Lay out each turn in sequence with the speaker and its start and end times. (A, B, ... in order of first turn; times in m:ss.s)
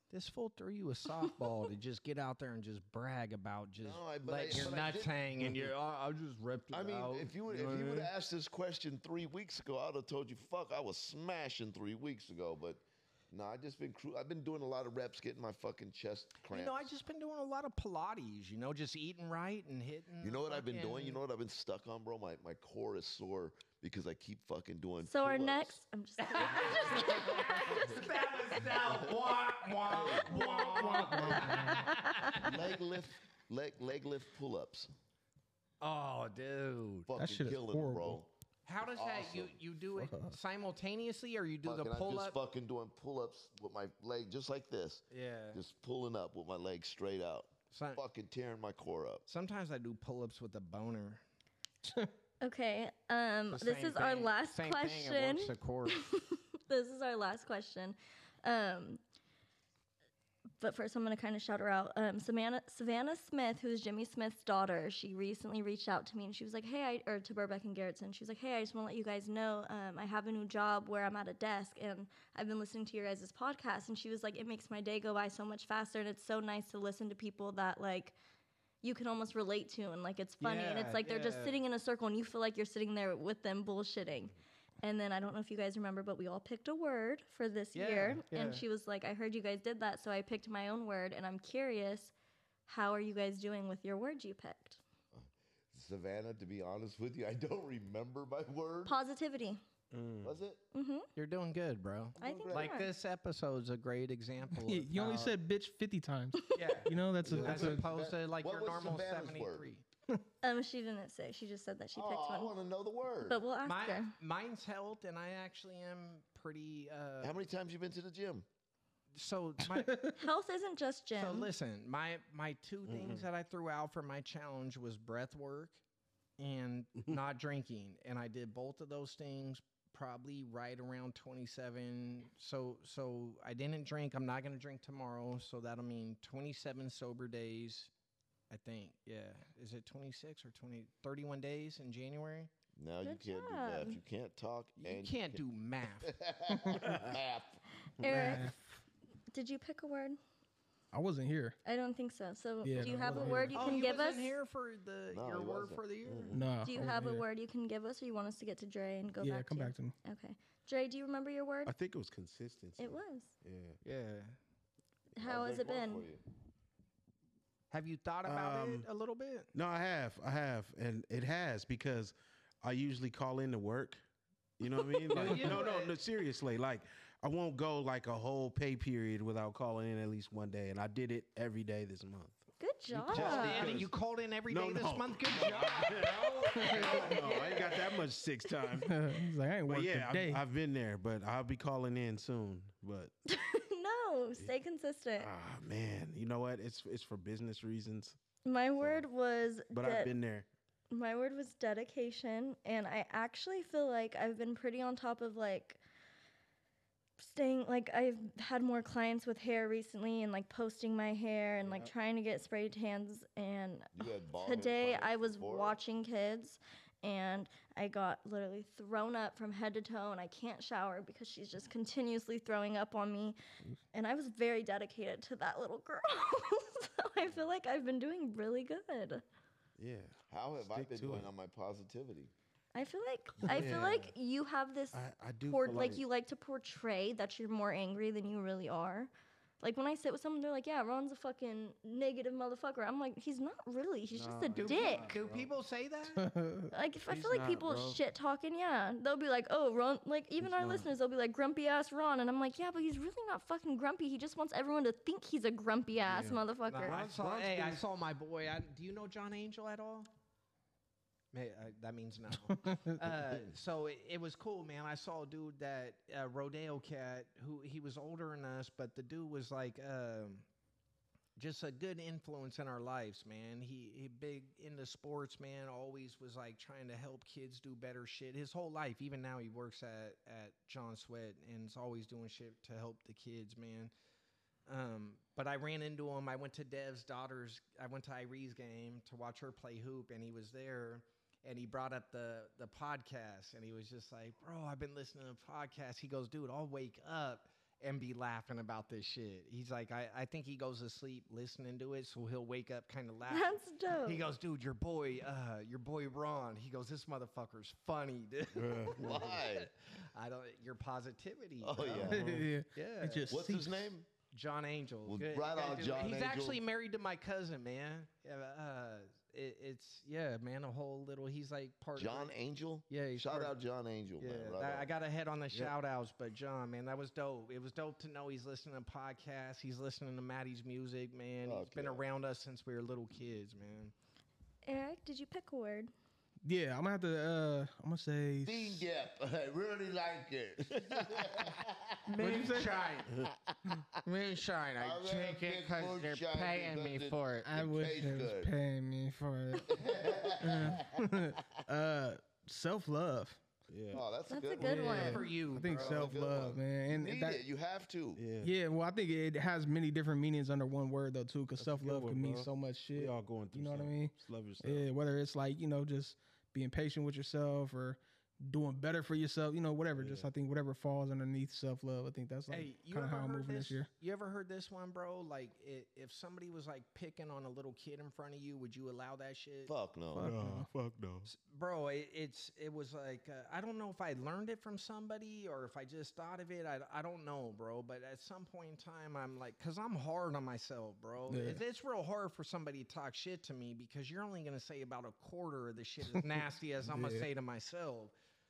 0:00.1-0:08.1 A
0:03.8-0:05.2 B
0:06.7-0:16.9 B
0:16.5-0:21.2 A
0:20.2-0:25.8 B
0:25.0-0:28.0 C
0:26.2-0:32.7 A
0:26.4-0:28.0 B
0:28.7-0:31.4 B
0:30.4-0:31.9 D
0:31.3-0:32.4 C
0:32.3-0:34.9 B
0:35.8-0:37.1 A
0:37.0-0:38.3 B
0:37.2-0:38.2 D
0:38.6-0:42.4 A
0:38.8-0:39.6 B
0:40.0-0:40.4 D
0:41.6-0:49.2 B
0:45.1-0:45.6 A
0:47.7-0:48.0 A
0:49.3-0:51.2 A
0:51.8-0:52.1 D
0:52.4-0:59.0 C
0:53.5-0:56.1 A
1:00.6-1:18.1 C
1:18.8-1:32.1 C
1:20.4-1:21.6 A
1:27.7-1:28.6 A
1:32.7-1:34.8 C
1:35.1-1:39.0 B
1:38.8-1:39.6 C
1:39.9-1:40.4 E
1:40.2-1:40.6 B
1:40.7-1:41.1 C
1:41.2-1:45.3 A
1:42.2-1:42.8 B
1:42.2-1:42.9 C
1:44.6-1:47.8 D
1:46.4-1:46.7 C
1:46.5-1:49.8 A
1:47.2-1:49.7 B
1:47.3-1:47.8 E
1:50.4-1:52.5 C
1:51.9-1:53.4 B
1:53.2-1:54.1 C
1:53.6-1:57.4 A
1:57.2-1:58.4 B
1:59.1-2:00.0 A
1:59.7-2:00.2 D
2:00.2-2:01.5 C
2:01.1-2:05.8 A
2:02.9-2:03.2 E
2:06.4-2:17.9 A
2:18.5-2:22.5 A
2:22.8-2:25.4 B
2:23.0-2:24.0 C
2:24.8-2:26.1 A
2:26.0-2:27.6 B
2:26.5-2:26.8 D
2:26.8-2:27.1 E
2:28.0-2:28.4 E
2:28.0-2:28.5 C
2:28.1-2:28.8 D
2:29.3-2:30.2 C
2:30.9-2:31.6 D
2:31.6-2:34.3 C
2:32.6-2:33.7 D
2:32.8-2:33.6 E
2:33.5-2:36.4 A
2:35.1-2:35.8 B
2:36.0-2:36.5 E
2:36.3-2:37.2 D
2:36.6-2:41.7 C
2:39.2-2:39.9 D
2:41.6-2:43.8 E
2:42.8-2:43.3 C
2:43.8-2:44.4 A
2:45.2-2:46.2 B
2:45.2-2:46.0 C
2:47.7-2:49.5 A
2:48.2-2:48.9 E
2:49.5-2:54.0 E
2:54.6-3:03.9 E
2:55.1-2:56.0 A
3:02.6-3:03.8 C
3:03.1-3:07.9 A
3:04.5-3:09.0 E
3:06.6-3:06.9 D
3:06.8-3:07.7 C
3:08.8-3:10.4 D
3:09.7-3:13.1 E
3:13.3-3:15.3 C
3:15.2-3:18.2 E
3:18.4-3:20.1 C
3:18.8-3:19.0 E
3:19.7-3:20.5 E
3:20.9-3:25.8 C
3:27.2-3:43.4 C
3:31.6-3:31.9 E
3:33.9-3:35.8 B
3:43.9-3:49.2 C
3:49.8-3:51.3 E
3:50.3-3:52.3 B
3:52.7-4:05.1 C
3:53.4-3:54.1 E
3:54.9-3:56.0 E
4:04.1-4:05.5 E
4:04.5-4:06.2 A
4:06.2-4:06.7 D
4:06.7-4:17.0 C
4:07.1-4:08.0 E
4:10.4-4:10.9 E
4:16.0-4:17.8 E
4:16.7-4:20.1 A
4:21.3-4:30.4 A
4:22.5-4:22.9 D
4:31.4-4:43.9 A
4:44.7-5:12.1 A
5:03.3-5:04.2 C
5:08.5-5:09.2 E
5:09.0-5:09.7 B
5:11.6-5:12.2 B
5:12.1-5:13.9 D
5:12.2-5:12.4 E
5:12.7-5:13.3 A
5:13.3-5:14.1 B
5:14.3-5:22.3 A
5:15.0-5:16.6 B
5:22.0-5:24.9 B
5:22.9-5:23.5 A
5:24.2-5:33.9 A
5:31.4-5:32.0 B
5:34.6-5:35.9 C
5:36.4-5:38.8 D
5:38.4-5:42.6 B
5:42.1-5:43.2 A
5:42.1-5:42.7 D
5:43.2-5:43.8 B
5:44.0-5:47.5 A
5:44.8-5:48.5 B
5:47.4-5:49.8 D
5:49.6-5:51.3 B
5:50.4-5:53.4 D
5:53.7-5:54.0 E
5:53.9-5:58.2 B
5:54.3-5:55.2 C
5:54.6-5:56.1 A
5:54.7-5:57.4 D
5:58.2-5:58.5 E
5:58.4-6:13.9 D
6:01.6-6:04.9 E
6:10.0-6:10.3 E
6:12.5-6:19.7 A
6:19.6-6:20.3 B
6:20.1-6:20.7 D
6:20.2-6:21.3 E
6:21.2-6:38.1 A
6:31.3-6:31.6 D
6:36.9-6:37.3 D